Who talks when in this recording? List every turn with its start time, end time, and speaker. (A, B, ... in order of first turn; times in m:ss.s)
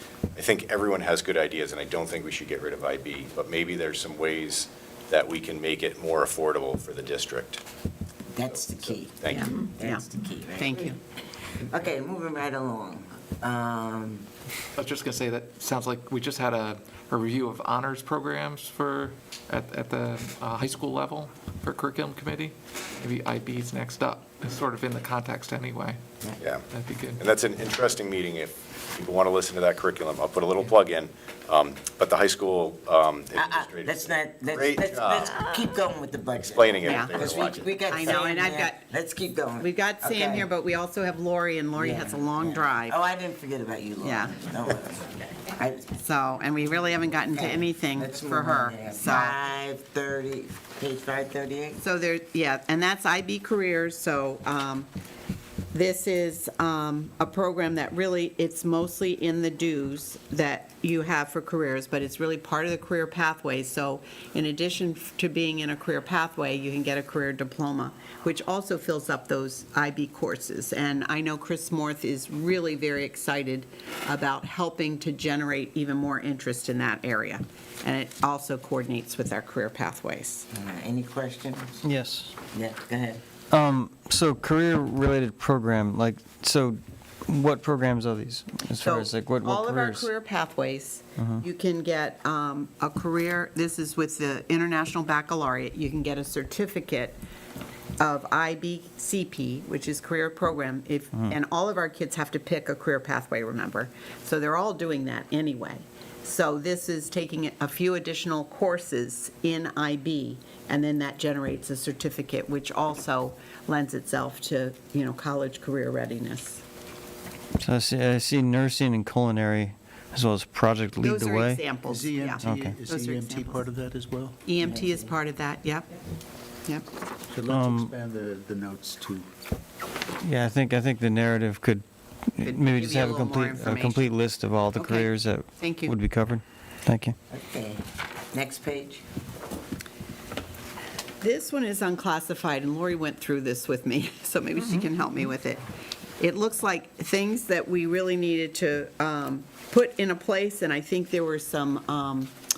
0:00.4-0:07.6 A
0:08.3-0:10.9 B
0:08.4-0:09.4 A
0:09.3-0:10.0 C
0:10.6-0:11.0 C
0:11.6-0:14.3 B
0:14.8-0:26.0 D
0:26.4-0:26.6 A
0:26.7-0:27.2 D
0:27.2-0:35.4 A
0:33.4-0:40.5 B
0:36.4-0:38.0 A
0:36.8-0:37.2 C
0:37.9-0:38.8 C
0:39.6-0:43.0 C
0:41.8-0:46.0 B
0:44.0-0:44.4 C
0:46.0-0:49.4 C
0:47.3-0:51.8 B
0:51.8-0:54.9 C
0:55.7-1:20.5 C
1:20.5-1:21.8 B
1:21.8-1:22.4 E
1:22.5-1:23.2 B
1:23.5-1:30.1 E
1:28.8-1:37.2 C
1:38.0-1:56.6 C
1:57.6-2:01.6 E
2:01.0-2:03.7 C
2:01.8-2:04.4 F
2:02.4-2:02.8 E
2:04.4-2:05.9 C
2:04.6-2:05.1 B
2:07.3-2:09.3 F
2:07.5-2:07.9 E
2:10.2-2:17.2 E
2:12.4-2:14.2 C
2:14.8-2:16.0 C
2:17.3-2:19.0 B
2:21.2-2:25.6 C
2:26.2-2:32.3 C